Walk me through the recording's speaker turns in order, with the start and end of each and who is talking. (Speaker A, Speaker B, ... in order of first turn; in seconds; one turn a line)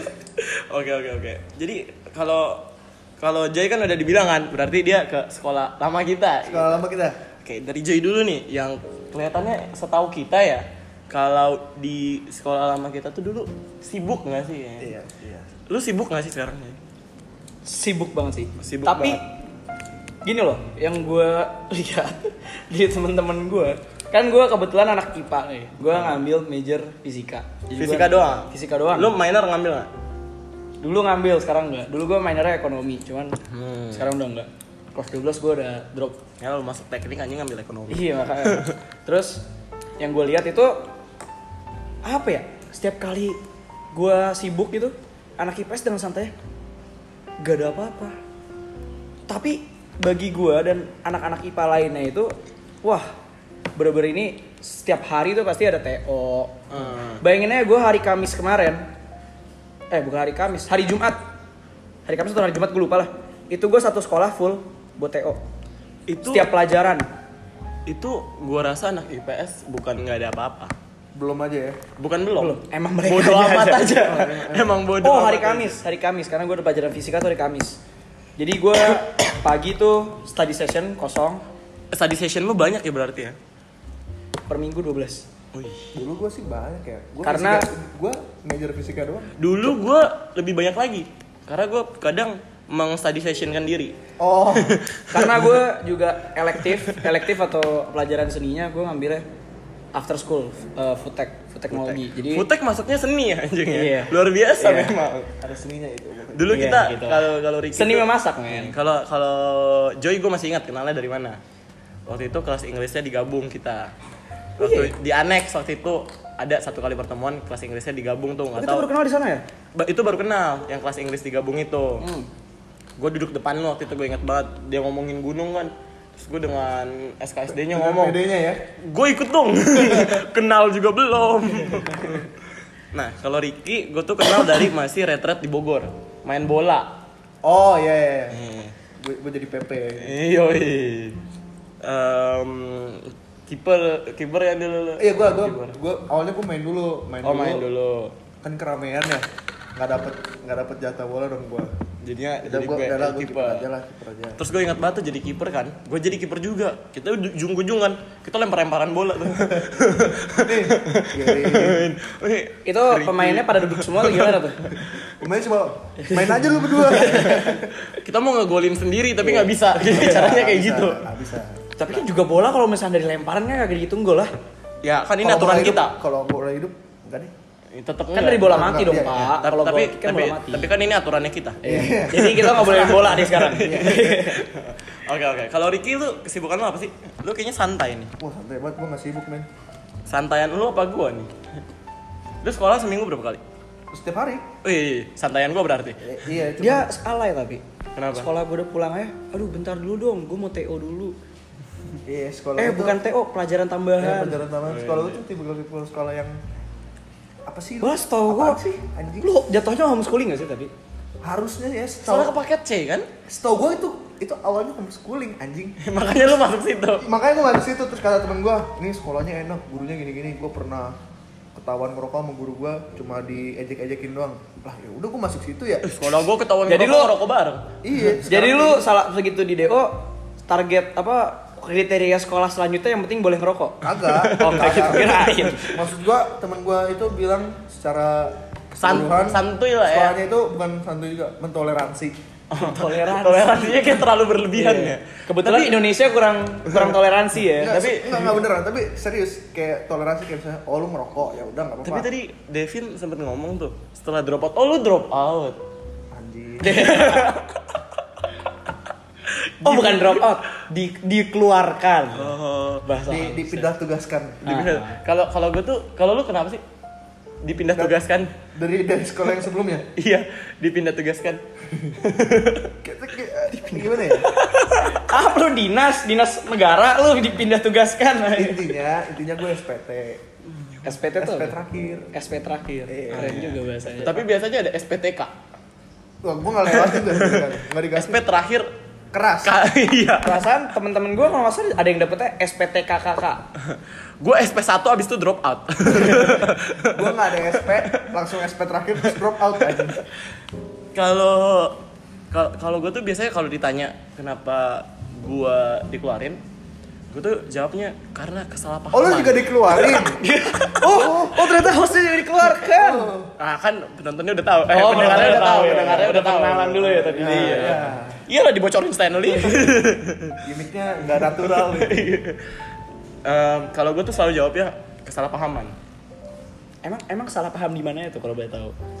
Speaker A: 0.4-2.7
Speaker A: 3.2-6.8
Speaker B: 6.4-7.2
Speaker A: 7.4-14.9
Speaker B: 14.8-15.5
Speaker A: 15.7-16.8
Speaker C: 17.6-19.2
Speaker A: 18.6-19.2
Speaker C: 20.2-29.1
Speaker A: 27.7-29.9
Speaker C: 30.8-33.4
Speaker A: 33.5-34.1
Speaker C: 33.9-36.2
Speaker A: 36.4-38.8
Speaker C: 37.9-39.4
Speaker C: 40.0-40.9
Speaker C: 42.0-43.4
Speaker C: 43.9-46.3
Speaker C: 47.4-48.1
Speaker C: 49.3-53.1
Speaker C: 53.8-56.6
Speaker A: 56.7-57.2
Speaker C: 57.2-58.9
Speaker C: 59.9-61.2
Speaker C: 62.1-65.4
Speaker A: 66.1-66.5
Speaker C: 66.2-67.0
Speaker A: 67.8-70.7
Speaker B: 71.1-71.8
Speaker A: 72.0-75.8
Speaker C: 72.4-74.0
Speaker B: 73.9-74.8
Speaker C: 75.0-77.8
Speaker C: 78.4-81.4
Speaker A: 81.9-83.4
Speaker C: 84.5-85.2
Speaker A: 85.5-86.0
Speaker B: 85.9-89.3
Speaker C: 87.2-87.7
Speaker A: 89.4-93.9
Speaker B: 94.2-94.8
Speaker A: 94.5-95.6
Speaker C: 95.1-99.2
Speaker C: 99.9-102.5
Speaker A: 101.7-105.3
Speaker C: 103.7-105.0
Speaker B: 105.4-106.6
Speaker A: 106.3-111.4
Speaker C: 106.5-108.7
Speaker A: 112.1-113.9
Speaker A: 114.6-118.9
Speaker C: 114.6-114.9
Speaker C: 118.6-119.4
Speaker A: 119.7-122.1
Speaker C: 122.0-122.3
Speaker A: 123.0-128.2
Speaker B: 127.7-128.6
Speaker A: 128.8-132.3
Speaker A: 132.9-137.0
Speaker B: 137.4-138.4
Speaker A: 138.3-138.7
Speaker B: 139.0-140.1
Speaker A: 140.0-141.2
Speaker A: 141.8-145.8
Speaker B: 145.0-147.7
Speaker A: 147.2-148.1
Speaker B: 148.4-151.7
Speaker A: 152.0-153.7
Speaker B: 152.4-154.4
Speaker A: 154.4-165.1
Speaker B: 159.5-159.8
Speaker B: 160.4-161.9
Speaker C: 162.6-164.8
Speaker B: 164.9-167.7
Speaker A: 166.8-171.0
Speaker C: 169.2-170.2
Speaker B: 169.7-171.6
Speaker C: 171.8-174.3
Speaker A: 174.8-175.9
Speaker B: 175.2-177.3
Speaker A: 177.7-188.1
Speaker C: 178.1-180.7
Speaker B: 178.3-179.3
Speaker B: 181.6-183.0
Speaker C: 181.6-184.4
Speaker B: 183.6-184.3
Speaker B: 188.2-189.5
Speaker A: 190.1-191.3
Speaker A: 192.4-193.4
Speaker B: 193.9-194.5
Speaker A: 194.6-196.0
Speaker B: 196.0-196.9
Speaker C: 196.6-201.2
Speaker A: 197.9-198.3
Speaker B: 202.1-203.0
Speaker C: 202.6-204.4
Speaker B: 204.0-206.4
Speaker A: 204.6-205.2
Speaker B: 207.5-209.3
Speaker C: 207.8-210.7
Speaker B: 211.2-212.3
Speaker A: 212.0-213.1
Speaker B: 213.3-215.8
Speaker A: 215.8-217.1
Speaker B: 217.0-221.0
Speaker B: 221.5-225.9
Speaker A: 225.8-227.7
Speaker C: 226.7-227.1
Speaker B: 227.8-228.8
Speaker C: 228.1-235.8
Speaker B: 233.8-242.2
Speaker A: 234.0-235.8
Speaker A: 238.8-240.2
Speaker A: 242.5-245.8
Speaker C: 242.6-247.7
Speaker A: 246.7-246.9
Speaker B: 247.6-252.1
Speaker A: 247.6-248.4
Speaker A: 251.8-255.6
Speaker B: 256.1-256.9
Speaker C: 256.6-257.4
Speaker A: 256.7-257.8
Speaker A: 259.6-260.4
Speaker C: 259.6-263.7
Speaker A: 262.1-262.8
Speaker B: 263.1-264.4
Speaker C: 264.4-265.0
Speaker A: 264.4-266.6
Speaker A: 267.4-268.3
Speaker B: 268.5-269.9
Speaker A: 269.9-271.4
Speaker A: 271.9-272.7
Speaker B: 272.8-274.3
Speaker C: 273.6-278.7
Speaker A: 274.2-275.0
Speaker B: 278.3-280.2
Speaker C: 280.8-281.6
Speaker B: 281.1-282.1
Speaker C: 282.1-284.3
Speaker B: 282.9-283.4
Speaker A: 283.1-285.3
Speaker B: 286.2-288.2
Speaker A: 286.7-288.7
Speaker B: 289.1-289.6
Speaker A: 289.4-290.5
Speaker C: 290.2-293.4
Speaker A: 293.7-298.2
Speaker B: 295.9-300.0
Speaker A: 299.1-300.0
Speaker A: 300.9-301.8
Speaker A: 302.3-306.4
Speaker A: 307.1-310.0
Speaker B: 308.9-310.2
Speaker C: 309.7-313.1
Speaker B: 310.8-313.3
Speaker A: 313.4-320.4
Speaker C: 314.7-317.8
Speaker B: 317.0-318.2
Speaker C: 319.3-319.7
Speaker B: 320.4-322.0
Speaker A: 321.1-322.5
Speaker A: 323.2-325.7
Speaker C: 326.8-328.7